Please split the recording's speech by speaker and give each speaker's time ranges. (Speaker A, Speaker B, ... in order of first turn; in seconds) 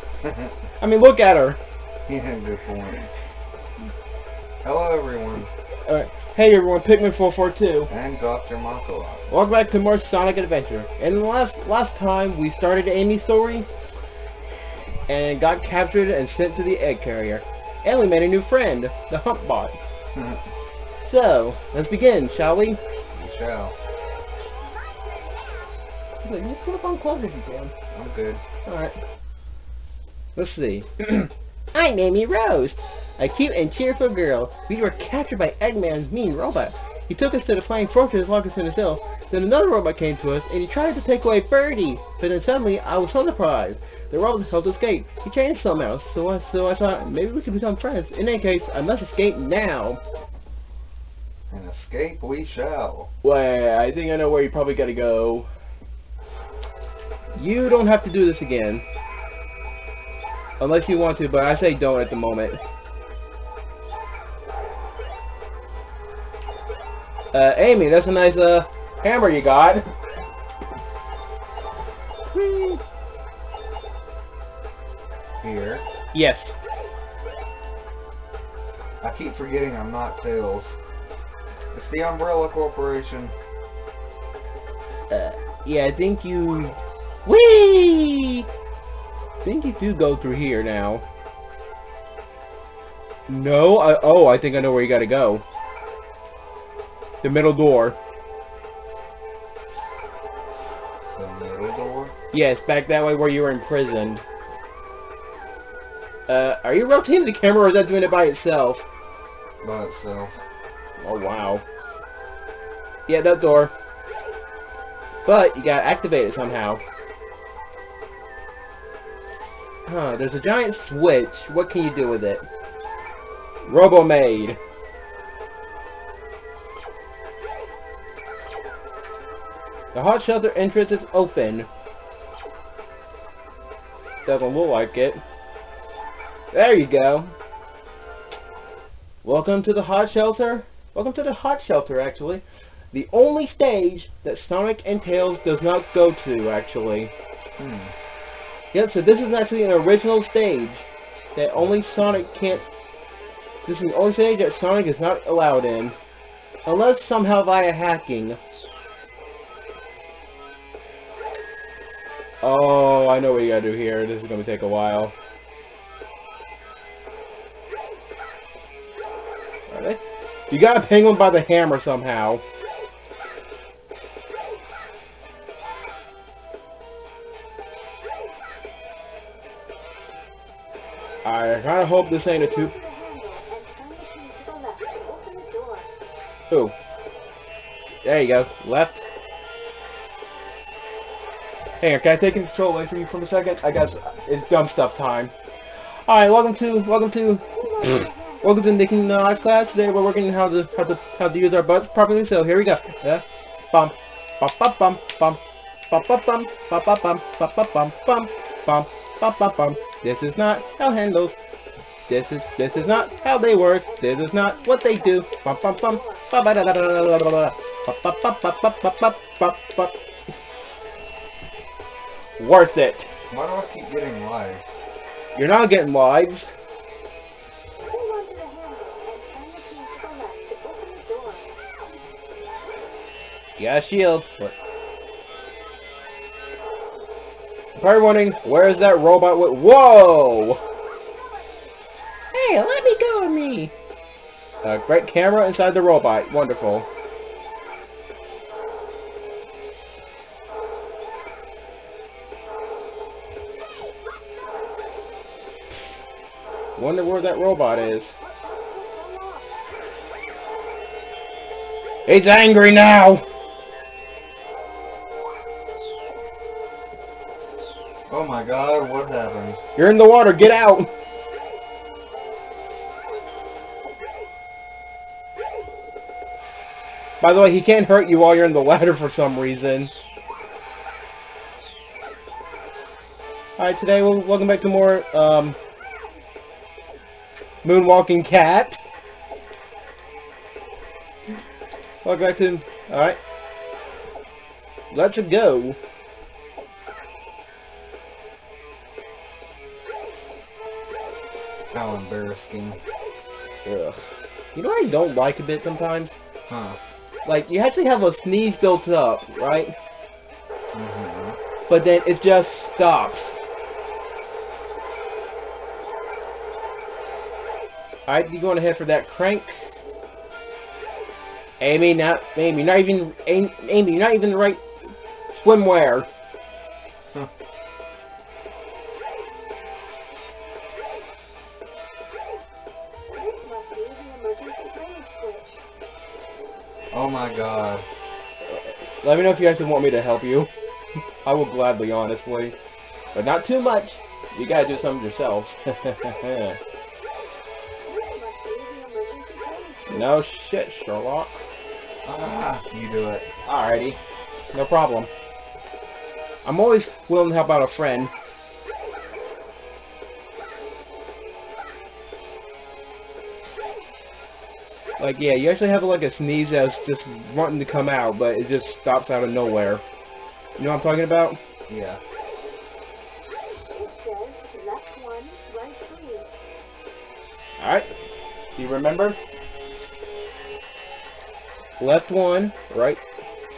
Speaker A: 0.2-0.5, 2.1-3.1, 4.6-5.5, 7.9-9.3, 20.1-20.5, 23.1-23.7, 27.9-28.4, 51.5-53.1, 75.4-75.8, 79.0-80.8, 81.7-83.3, 101.1-102.1, 109.6-110.3, 147.6-147.9, 223.3-224.8, 268.1-269.6, 301.7-302.8, 306.5-306.8, 310.7-311.4, 336.9-337.8, 352.0-353.3, 371.7-372.0
Speaker B: 0.8-1.6, 5.8-7.9, 9.3-13.7, 15.1-19.8, 21.0-22.8, 26.2-27.7, 28.6-28.9, 30.4-50.0, 53.2-55.5, 57.3-58.8, 60.6-62.6, 67.3-69.9, 72.3-72.8, 76.1-76.5, 85.1-88.5, 89.4-91.0, 93.3-95.4, 97.2-98.0, 102.3-104.2, 106.3-108.8, 111.0-111.6, 113.1-113.7, 115.2-116.8, 119.8-122.4, 123.7-124.6, 129.9-131.7, 134.2-135.2, 136.5-137.3, 139.2-147.1, 148.7-152.7, 153.7-155.9, 156.7-158.4, 162.4-165.1, 169.7-172.4, 181.2-182.7, 186.5-186.7, 188.0-189.1, 191.8-195.3, 196.1-211.3, 212.1-219.9, 222.4-223.1, 225.3-226.5, 233.6-234.5, 237.8-240.6, 242.3-243.7, 244.6-246.9, 255.7-256.0, 256.8-258.1, 262.1-263.2, 269.8-270.9, 277.2-279.9, 283.6-285.6, 287.6-288.8, 292.0-293.2, 294.9-295.8, 303.6-304.0, 304.5-306.2, 307.2-309.7, 311.7-313.4, 318.1-319.7, 321.6-324.6, 325.3-326.1, 338.4-340.5, 341.2-342.6, 343.1-346.6, 349.9-351.4, 353.4-354.0, 354.5-355.1, 356.4-358.1, 365.0-369.8, 370.6-371.4, 377.6-377.9, 378.6-379.2, 381.8-383.0
Speaker C: 24.6-25.8, 182.1-185.9, 197.4-200.2, 212.7-216.3, 227.9-231.6, 240.9-241.7, 257.7-259.5, 333.1-335.6, 347.8-350.1, 373.6-376.3